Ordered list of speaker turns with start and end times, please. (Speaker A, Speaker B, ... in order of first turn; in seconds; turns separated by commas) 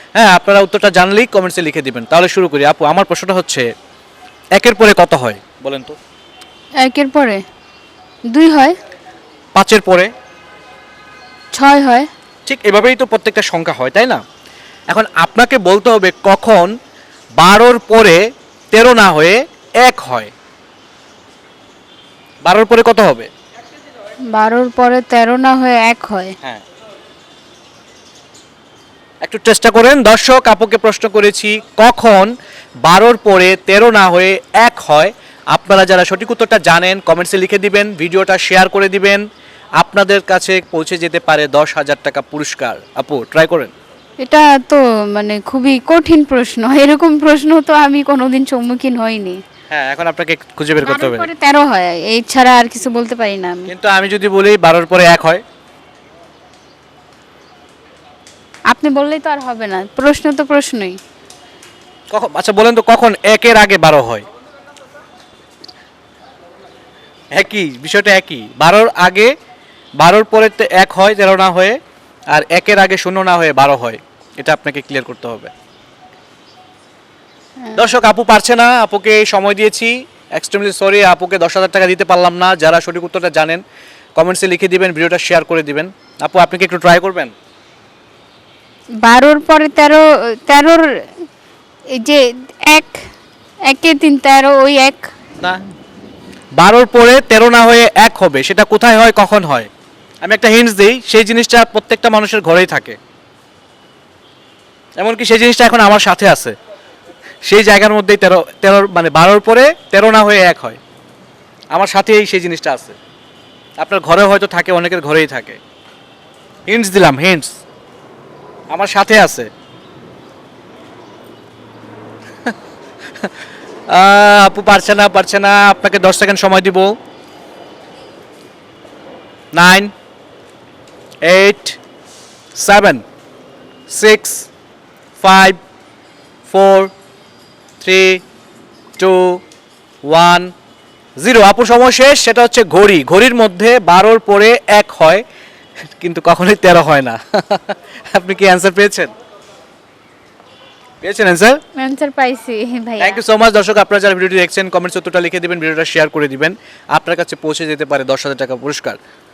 Speaker A: 0.1-3.7, Speaker A: 4.6-6.0, Speaker B: 6.8-7.4, Speaker B: 8.3-8.8, Speaker A: 9.5-10.1, Speaker B: 11.5-12.1, Speaker A: 12.4-14.2, Speaker A: 14.9-16.7, Speaker A: 17.4-18.2, Speaker A: 18.7-20.3, Speaker A: 22.4-23.3, Speaker B: 24.3-26.4, Speaker A: 29.2-32.3, Speaker A: 32.8-39.2, Speaker A: 39.8-43.7, Speaker B: 44.2-49.4, Speaker A: 49.7-51.3, Speaker B: 50.8-53.7, Speaker A: 53.7-55.4, Speaker B: 58.7-61.0, Speaker A: 62.1-64.2, Speaker A: 67.3-69.3, Speaker A: 70.0-71.8, Speaker A: 72.3-75.5, Speaker A: 77.7-83.6, Speaker A: 84.2-87.3, Speaker B: 89.0-90.8, Speaker B: 91.9-93.0, Speaker B: 93.7-95.1, Speaker A: 96.6-99.7, Speaker A: 100.2-103.0, Speaker A: 105.0-106.5, Speaker A: 107.4-110.8, Speaker A: 111.7-113.0, Speaker A: 113.8-115.6, Speaker A: 116.7-117.6, Speaker A: 118.7-119.5, Speaker A: 123.9-127.0, Speaker A: 129.5-129.9, Speaker A: 131.2-131.8, Speaker A: 132.5-133.0, Speaker A: 133.9-134.5, Speaker A: 135.2-135.6, Speaker A: 136.5-136.9, Speaker A: 137.8-138.2, Speaker A: 139.0-139.4, Speaker A: 140.0-140.5, Speaker A: 141.2-145.2, Speaker A: 146.0-149.1, Speaker A: 151.0-151.6, Speaker B: 151.8-153.2, Speaker A: 153.0-159.0